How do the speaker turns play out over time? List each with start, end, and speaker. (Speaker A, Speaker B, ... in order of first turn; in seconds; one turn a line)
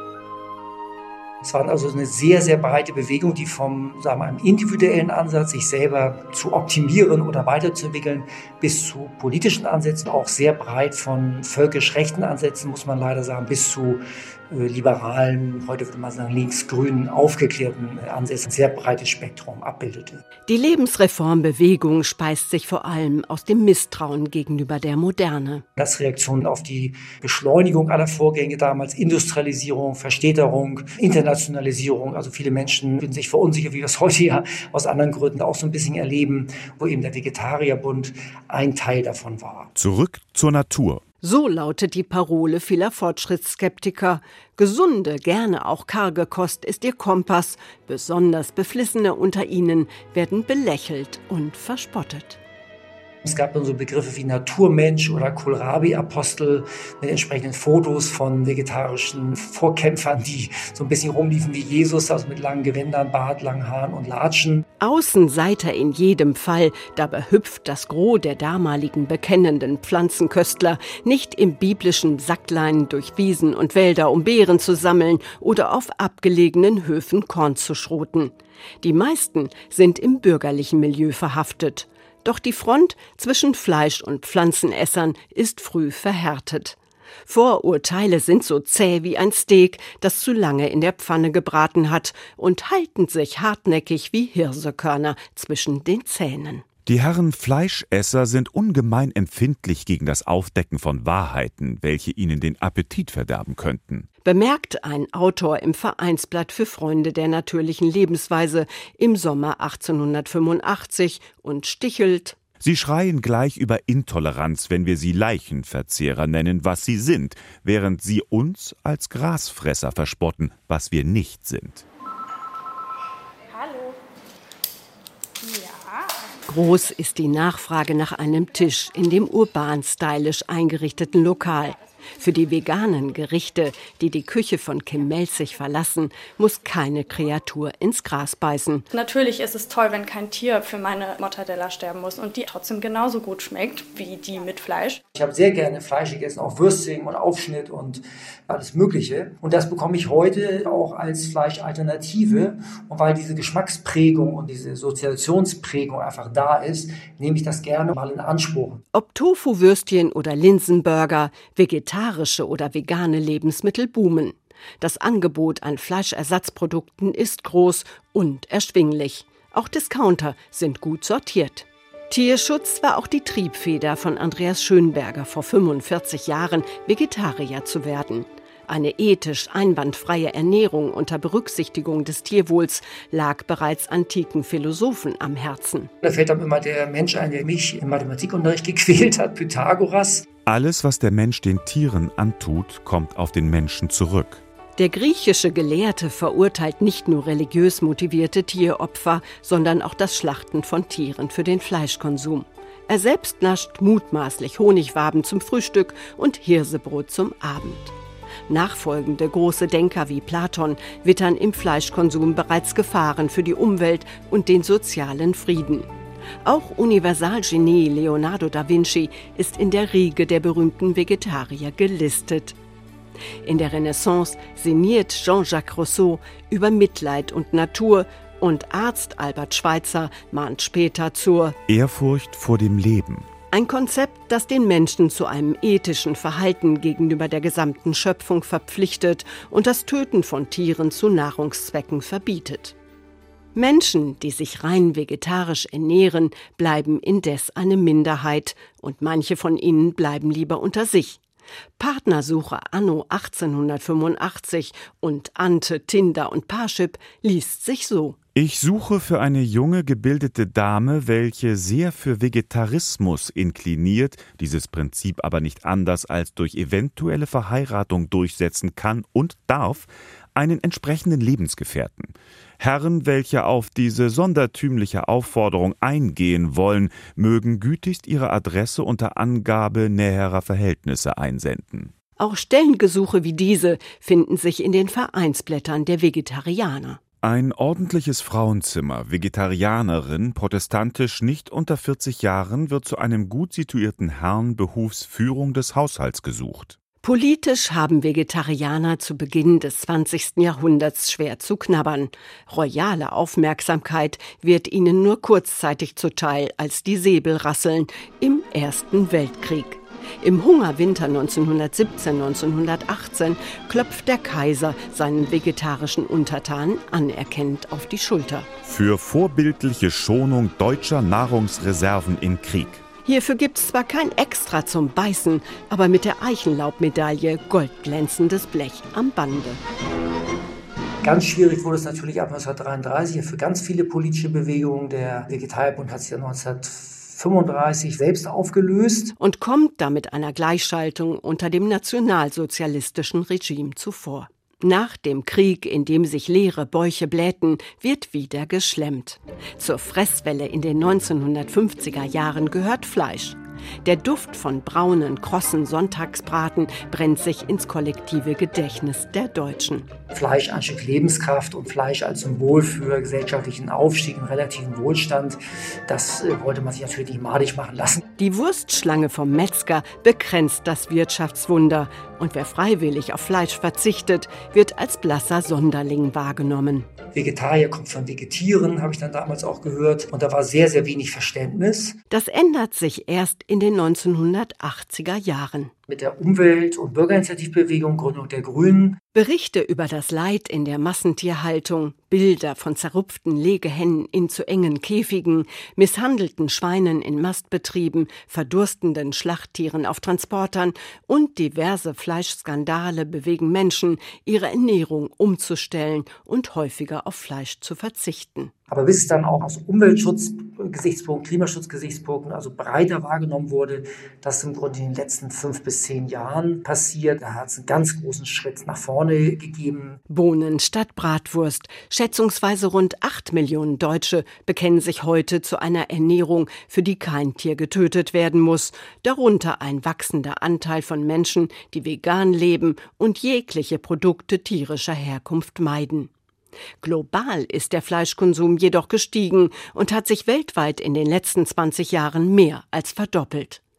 Speaker A: 1.4-20.2
Speaker B: 20.5-25.6
Speaker A: 25.8-39.7
Speaker C: 39.7-41.0
Speaker B: 41.2-52.4
Speaker A: 53.2-64.6
Speaker B: 64.8-96.6
Speaker C: 96.8-104.1
Speaker B: 104.2-112.3
Speaker C: 112.6-121.8
Speaker D: 123.5-124.0
Speaker D: 125.4-126.0
Speaker B: 126.5-138.8
Speaker D: 138.9-145.0
Speaker A: 145.1-158.8
Speaker B: 158.9-185.9
Speaker A: 186.0-190.2
Speaker C: 190.4-194.4
Speaker B: 194.8-207.9
Speaker B: 208.5-215.9
Speaker B: 216.4-222.6
Speaker B: 223.4-231.6
Speaker C: 231.7-233.3
Speaker B: 233.5-242.7
Speaker B: 243.5-251.2
Speaker B: 251.8-258.2
Speaker C: 258.3-281.9
Speaker B: 282.2-287.0
Speaker C: 287.2-296.8
Speaker B: 297.0-318.5
Speaker C: 318.6-322.8
Speaker B: 323.0-329.6
Speaker A: 331.0-339.1
Speaker B: 339.2-359.9
Speaker A: 360.1-368.0
Speaker B: 368.2-376.9
Speaker A: 377.1-382.0
Speaker B: 382.1-385.7
Speaker A: 385.9-389.0
Speaker B: 389.1-408.5
Speaker A: 408.7-420.0
Speaker B: 420.1-436.1
Speaker B: 436.8-443.6